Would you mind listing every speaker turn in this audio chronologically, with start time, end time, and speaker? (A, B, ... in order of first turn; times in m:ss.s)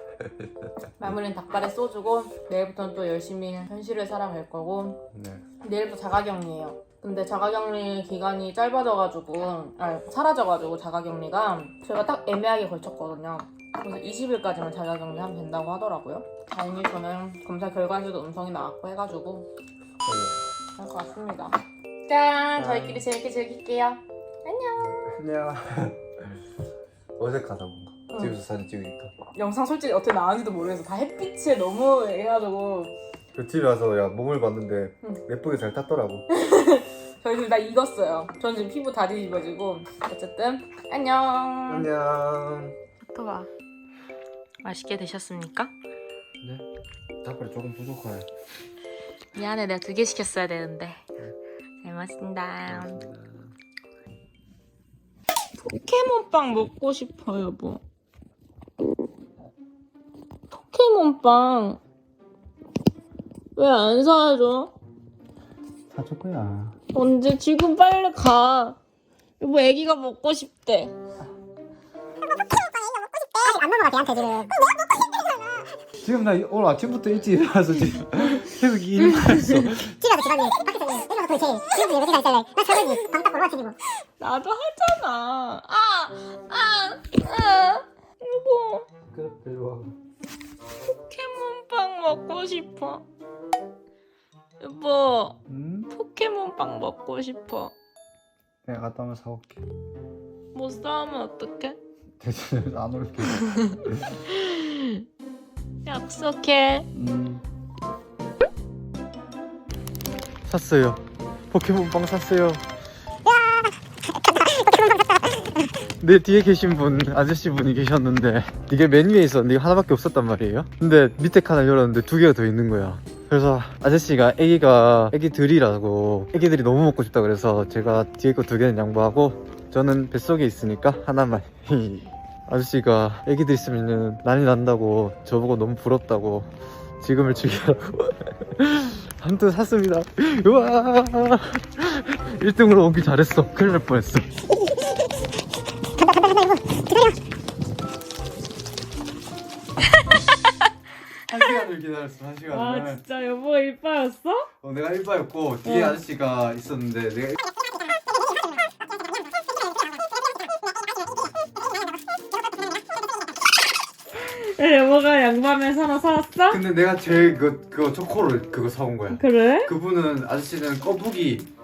0:00.2-0:01.1 A
0:01.0-0:05.0 B
0:05.1-0:05.4 A
0:05.6-0:19.5 B
0:20.0-0:20.4 A
0:20.8-0:25.2 B
0:22.6-0:23.0 A
0:24.8-0:26.4 A
0:27.2-0:29.1 A
0:28.1-0:28.3 B
0:29.3-0:32.9 B
0:33.3-0:36.3 A
0:36.3-0:41.9 B
0:41.7-0:42.8 A
0:43.0-0:43.5 B
0:44.6-0:45.7 B
0:46.4-0:46.6 A
0:47.2-0:48.3 A
0:49.3-0:51.0 B
0:51.8-0:53.0 B
0:52.7-0:53.5 A
0:55.6-0:57.8 B
1:00.5-1:01.8 B
1:03.6-1:04.7 B
1:05.9-1:06.8 A
1:06.9-1:08.8 B
1:09.4-1:10.9 B
1:12.7-1:14.6 C
1:16.0-1:19.9 A
1:19.8-1:23.8 C
1:24.2-1:28.9 B
1:29.1-1:29.9 A
1:31.1-1:33.0 B
1:34.6-1:35.4 B
1:35.5-1:35.9 A
1:35.9-1:37.7 B
1:38.6-1:39.6 A
1:40.5-1:41.8 B
1:42.2-1:44.2 A
1:43.5-1:45.0 B
1:45.8-1:46.9 B
1:46.9-1:47.4 A
1:50.4-1:52.6 A
1:53.2-1:55.5 C
1:56.0-2:16.5 A
2:17.0-2:24.3 A
2:24.5-2:25.1 C
2:26.0-2:27.1 C
2:31.3-2:33.0 A
2:32.5-2:34.5 B
2:34.6-2:37.4 A
2:35.6-2:36.0 B
2:44.2-2:46.6 B
2:46.5-2:51.5 A
2:49.1-2:49.7 B